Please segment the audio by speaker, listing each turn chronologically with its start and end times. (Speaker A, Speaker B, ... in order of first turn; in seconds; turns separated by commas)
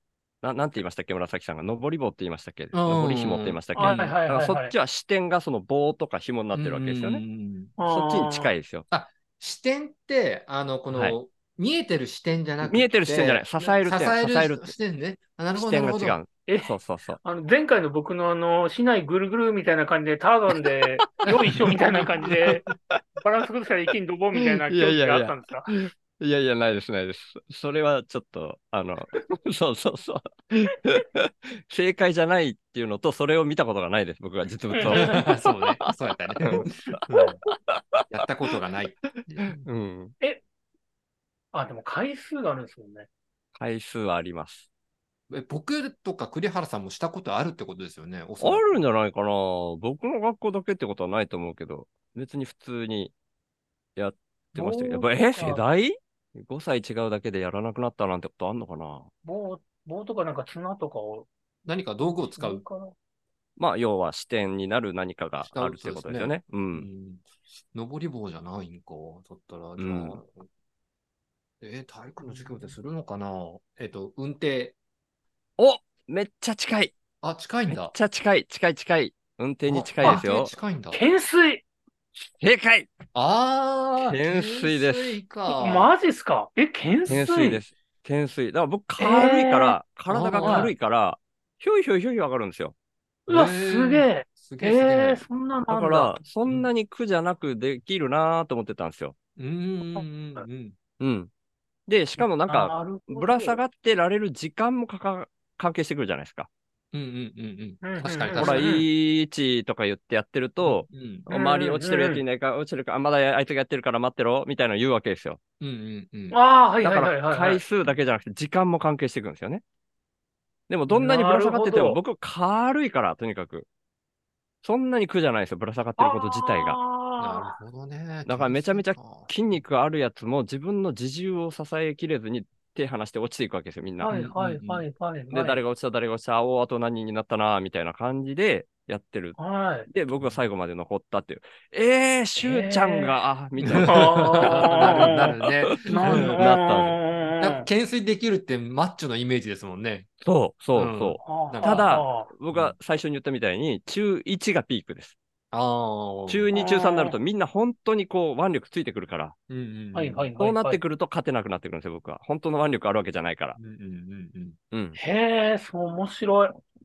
Speaker A: 0.4-7.2, Speaker B: 2.7-4.1, Speaker C: 3.8-4.7, Speaker B: 6.5-7.7, Speaker C: 7.8-8.6, Speaker A: 7.9-8.9, Speaker B: 8.9-16.2, Speaker A: 10.9-11.2, Speaker A: 12.6-14.8, Speaker A: 15.5-17.2, Speaker C: 16.5-22.7, Speaker A: 21.2-22.5, Speaker C: 23.2-25.8, Speaker A: 24.4-35.2, Speaker C: 34.7-35.5, Speaker B: 34.9-37.4, Speaker A: 36.4-38.0, Speaker B: 38.1-39.6, Speaker A: 39.6-40.1, Speaker C: 41.5-43.1, Speaker A: 43.6-44.7, Speaker B: 45.3-48.8, Speaker A: 48.4-53.1, Speaker A: 54.0-59.1, Speaker C: 54.5-55.6, Speaker C: 59.2-61.3, Speaker B: 61.7-62.6, Speaker C: 62.1-62.9, Speaker A: 63.6-66.9, Speaker B: 65.4-70.5, Speaker A: 69.8-70.2, Speaker B: 71.6-74.8, Speaker C: 72.2-72.8, Speaker A: 75.6-76.9, Speaker B: 77.2-77.9, Speaker A: 77.7-80.5, Speaker B: 79.6-81.0, Speaker C: 80.9-81.6, Speaker A: 82.4-82.9, Speaker B: 83.1-85.9, Speaker A: 84.0-85.2, Speaker C: 85.5-87.6, Speaker A: 87.1-92.8, Speaker C: 89.0-89.8, Speaker B: 90.1-90.7, Speaker C: 90.4-90.7, Speaker C: 93.3-96.1, Speaker B: 93.3-95.2, Speaker A: 95.7-99.2, Speaker B: 99.4-100.8, Speaker C: 99.9-100.5, Speaker A: 101.0-101.3, Speaker A: 101.9-106.5, Speaker C: 102.2-103.6, Speaker B: 106.9-108.7, Speaker C: 107.8-108.8, Speaker A: 108.4-115.4, Speaker B: 110.7-111.3, Speaker C: 111.3-112.2, Speaker B: 115.6-116.4, Speaker C: 116.3-117.6, Speaker A: 116.8-119.6, Speaker A: 120.7-123.7, Speaker C: 120.9-122.0, Speaker A: 124.6-126.8, Speaker C: 126.0-127.6, Speaker B: 127.2-129.3, Speaker A: 128.3-134.1, Speaker C: 134.0-135.6, Speaker B: 134.1-134.8, Speaker A: 135.3-139.4, Speaker C: 139.4-139.9, Speaker A: 139.9-147.0, Speaker B: 140.2-140.4, Speaker C: 142.4-143.1, Speaker B: 143.6-146.6, Speaker C: 143.9-147.7, Speaker B: 147.4-150.1, Speaker A: 150.2-155.2, Speaker B: 150.8-151.9, Speaker C: 151.2-152.3, Speaker B: 155.5-156.5, Speaker A: 156.3-159.4, Speaker C: 156.5-157.2, Speaker B: 159.5-160.3, Speaker C: 159.9-160.8, Speaker A: 160.4-163.6, Speaker B: 163.6-164.6, Speaker A: 164.7-165.0, Speaker C: 165.0-166.6